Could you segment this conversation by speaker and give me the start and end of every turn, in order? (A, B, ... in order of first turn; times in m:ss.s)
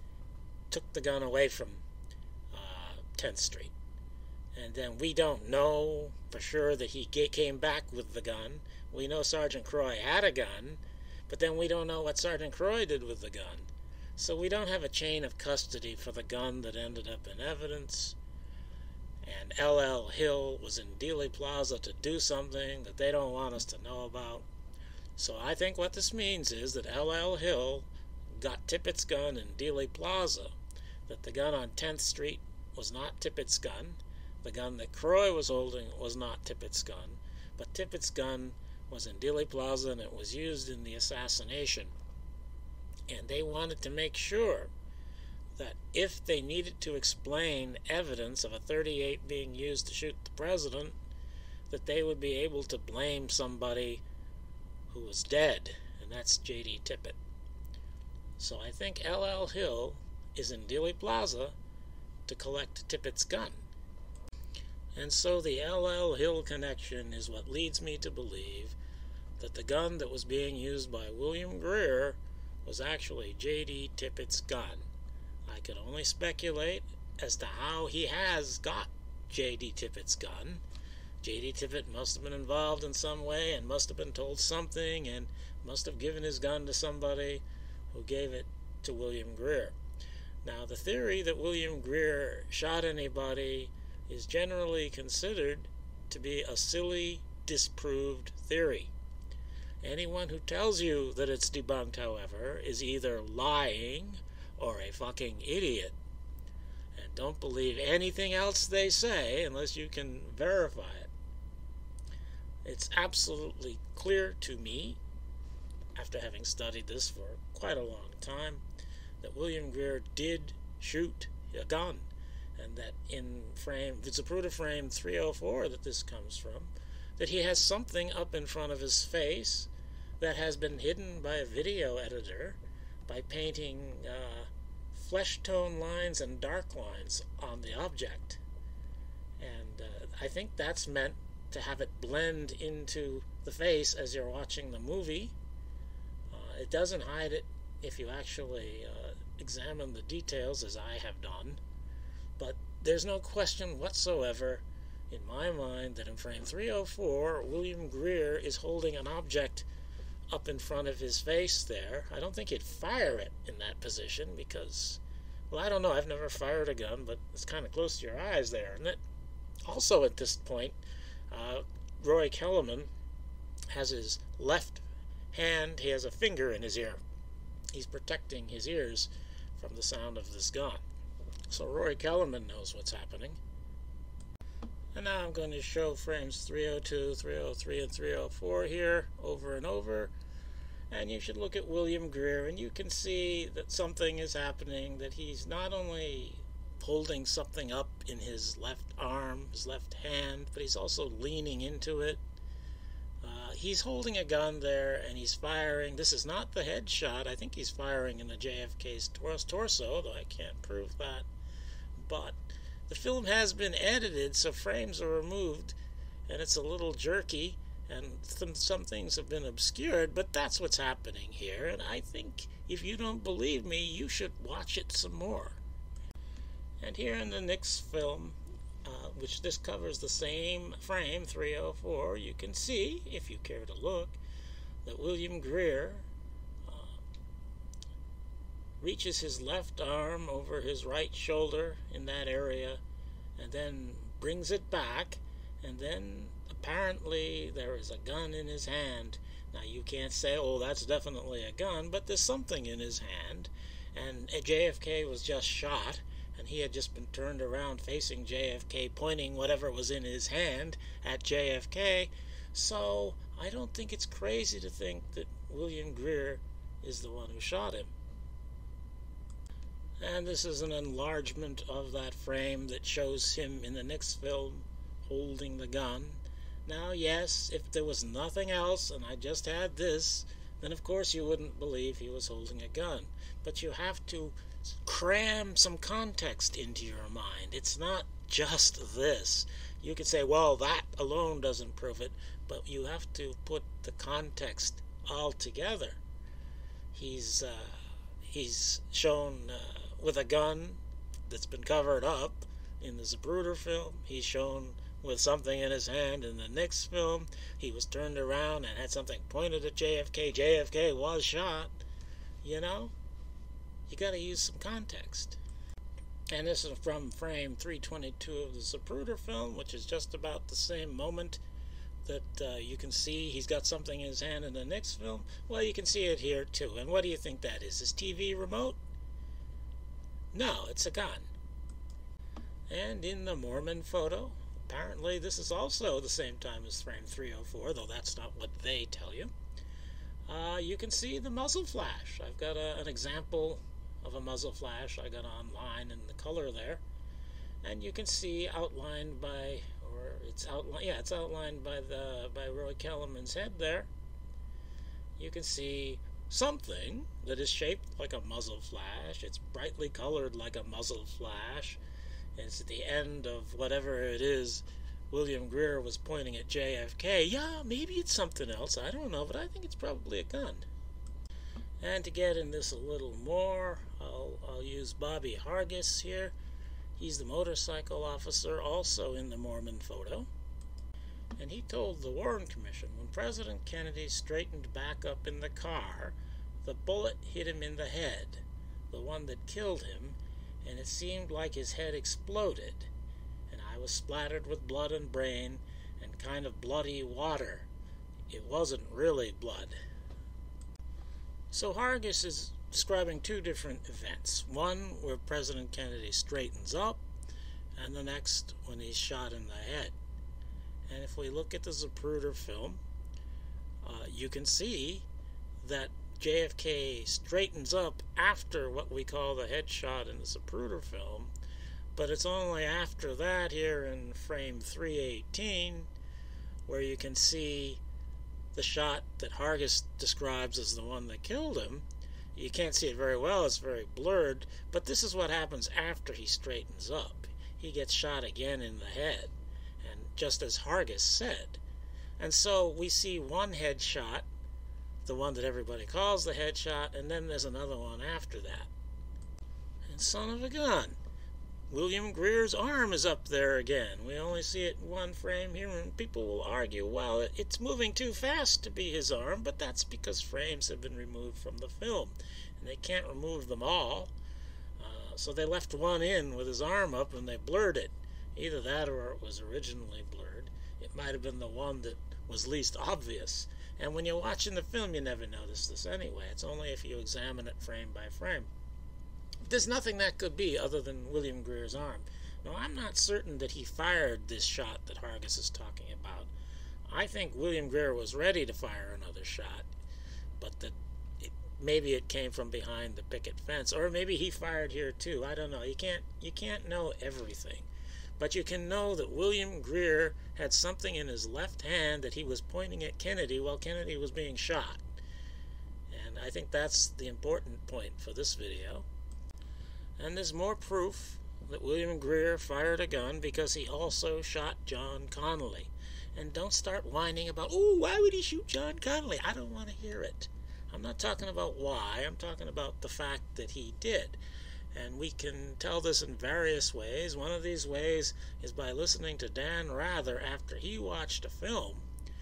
0:00.7-0:01.8 A
0:02.5-0:03.7 A
0:04.5-0:18.2 A
0:19.2-0:24.4 A
0:25.2-0:30.5 A
0:31.1-0:41.9 A
0:43.1-0:44.7 A
0:45.6-0:50.9 A
0:51.7-0:54.0 A
0:54.9-0:57.2 A
0:58.4-1:01.5 A
1:02.3-1:03.6 A
1:04.9-1:08.8 A
1:09.4-1:14.8 A
1:15.5-1:20.6 A
1:21.2-1:29.7 A
1:30.4-1:38.9 A
1:39.8-1:46.0 A
1:46.9-1:51.1 A
1:52.6-1:55.0 A
1:56.0-1:58.6 A
1:59.2-2:18.4 A
2:19.4-2:25.3 A
2:26.3-2:31.6 A
2:32.4-2:39.7 A
2:40.3-2:49.0 A
2:49.6-2:50.8 A
2:51.3-2:52.9 A
2:53.7-2:57.0 A
2:57.7-3:00.8 A
3:01.5-3:03.4 A
3:04.9-3:10.1 A
3:10.9-3:22.2 A
3:23.2-3:31.3 A
3:32.0-3:35.7 A
3:36.3-3:45.6 A
3:46.8-3:54.2 A
3:54.8-3:56.1 A
3:56.6-3:57.0 A
3:58.8-4:02.8 A
4:03.4-4:27.9 A
4:30.0-4:56.0 A
4:56.9-5:11.7 A
5:12.4-5:12.9 A
5:13.9-5:15.4 A
5:16.3-5:21.4 A
5:22.0-5:28.8 A
5:30.3-5:31.3 A
5:32.7-5:39.3 A
5:40.3-5:46.8 A
5:47.6-5:53.9 A
5:55.2-6:01.8 A
6:02.4-6:10.7 A
6:11.8-6:16.4 A
6:17.0-6:20.3 A
6:21.4-6:32.9 A
6:33.5-6:37.7 A
6:38.3-6:39.7 A
6:41.5-6:47.0 A
6:47.8-6:49.9 A
6:50.9-6:52.8 A
6:53.8-6:55.0 A
6:55.6-7:01.3 A
7:01.9-7:05.9 A
7:06.7-7:07.8 A
7:08.5-7:21.6 A
7:22.2-7:24.2 A
7:25.0-7:28.7 A
7:29.9-7:31.0 A
7:31.7-7:44.1 A
7:44.8-7:58.5 A
7:59.4-8:06.3 A
8:06.9-8:09.7 A
8:10.4-8:17.7 A
8:18.2-8:24.8 A
8:25.9-8:28.8 A
8:30.0-8:44.2 A
8:44.7-8:51.8 A